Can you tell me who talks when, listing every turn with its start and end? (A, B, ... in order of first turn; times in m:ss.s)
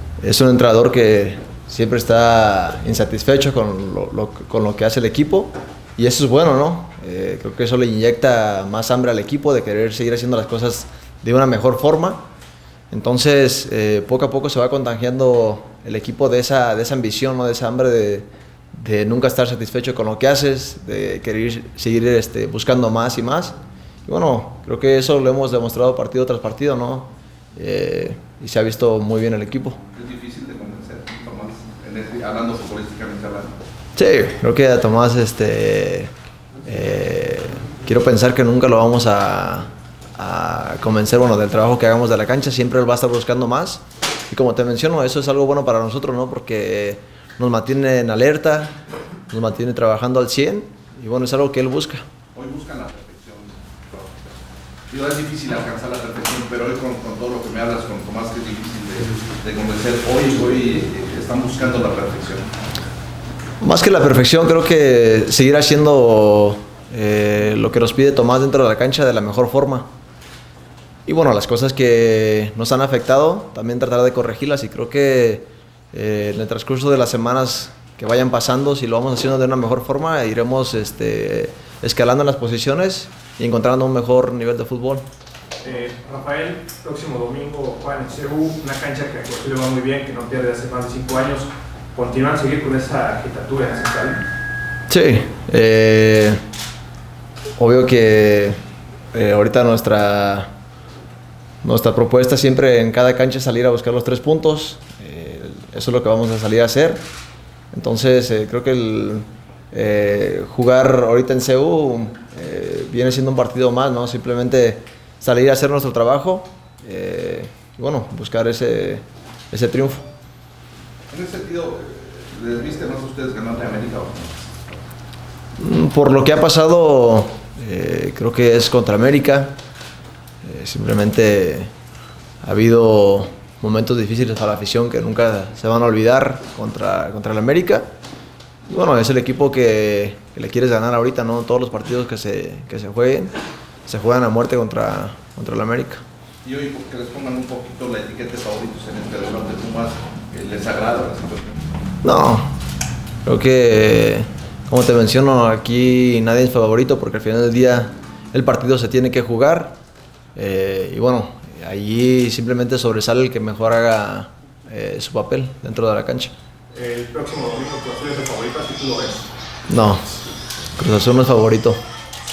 0:00.2-0:12.2 A
0:12.9-0:23.5 A
0:24.0-0:29.8 A
0:29.9-0:33.5 B
0:34.0-0:36.1 A
0:36.6-0:48.7 A
0:49.3-0:52.0 A
0:52.3-0:54.1 B
0:54.9-1:02.5 B
1:03.6-1:09.9 A
1:11.0-1:25.0 A
1:25.6-1:34.2 C
1:34.9-1:36.4 A
1:37.6-1:38.6 A
1:39.1-1:40.5 A
1:41.6-1:47.0 A
1:47.7-2:00.0 A
2:01.1-2:04.8 B
2:05.6-2:09.5 A
2:10.4-2:11.7 A
2:12.4-2:17.8 A
2:18.7-2:23.3 A
2:23.8-2:26.0 A
2:26.4-2:31.6 B
2:32.0-2:32.5 A
2:33.2-2:39.8 A
2:40.4-2:46.3 A
2:46.7-2:49.3 C
2:49.7-2:50.0 A
2:50.7-2:51.8 A